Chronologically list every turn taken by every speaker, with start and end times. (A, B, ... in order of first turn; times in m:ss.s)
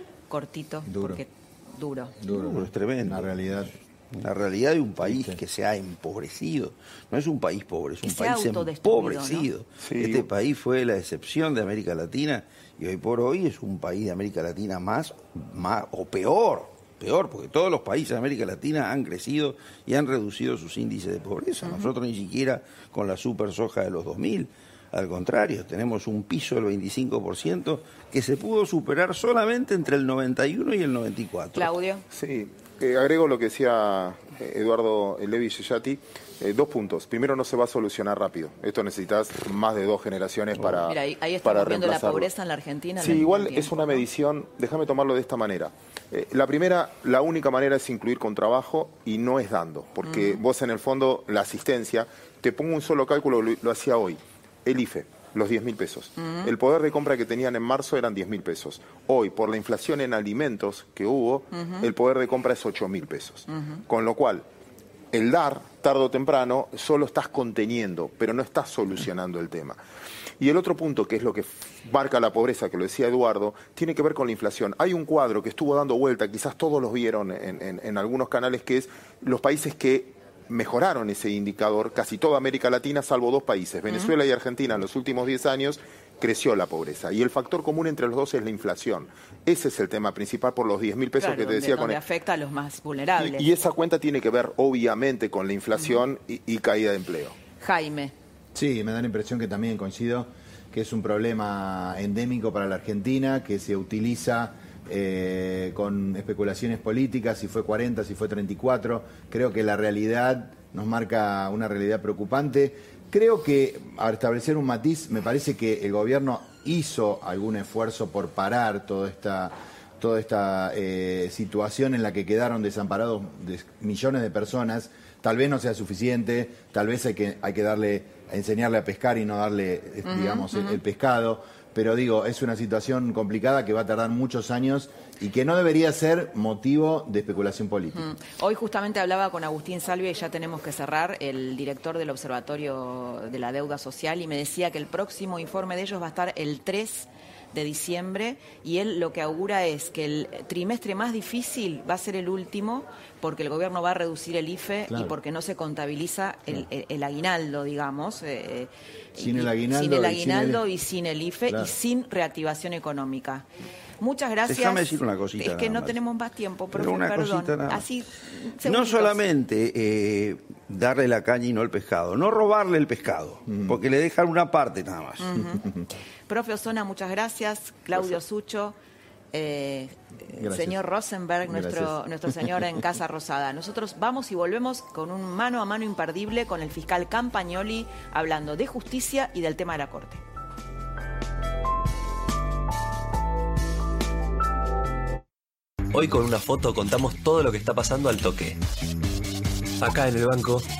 0:00.3-0:02.2 A
0:00.8-0:01.2 B
0:02.2-0:03.7 B
0:02.3-0:31.7 C
0:05.0-0:05.4 B
0:08.0-0:09.5 A
0:09.9-0:10.2 D
0:31.5-0:32.0 A
0:32.1-0:42.3 D
0:40.8-0:44.0 A
0:43.0-1:04.4 D
0:50.0-0:50.4 A
0:56.2-0:56.5 A
1:01.5-1:01.8 A
1:03.5-1:03.8 A
1:05.1-1:09.8 D
1:10.4-1:32.0 D
1:31.2-1:33.5 A
1:33.2-1:37.4 D
1:37.6-1:38.1 A
1:38.6-2:18.0 B
2:10.0-2:10.8 A
2:17.9-2:43.5 A
2:34.9-2:35.2 B
2:39.2-2:40.6 B
2:41.5-2:41.7 B
2:44.0-2:49.2 A
2:44.5-2:46.0 C
2:46.7-2:47.8 C
2:48.6-2:55.3 C
2:53.5-2:53.8 B
2:55.2-2:55.7 A
2:55.5-2:55.8 B
2:56.3-2:58.8 A
2:59.3-3:10.2 A
3:00.3-3:00.8 B
3:01.4-3:02.6 B
3:15.9-3:18.6 E
3:19.8-3:20.6 E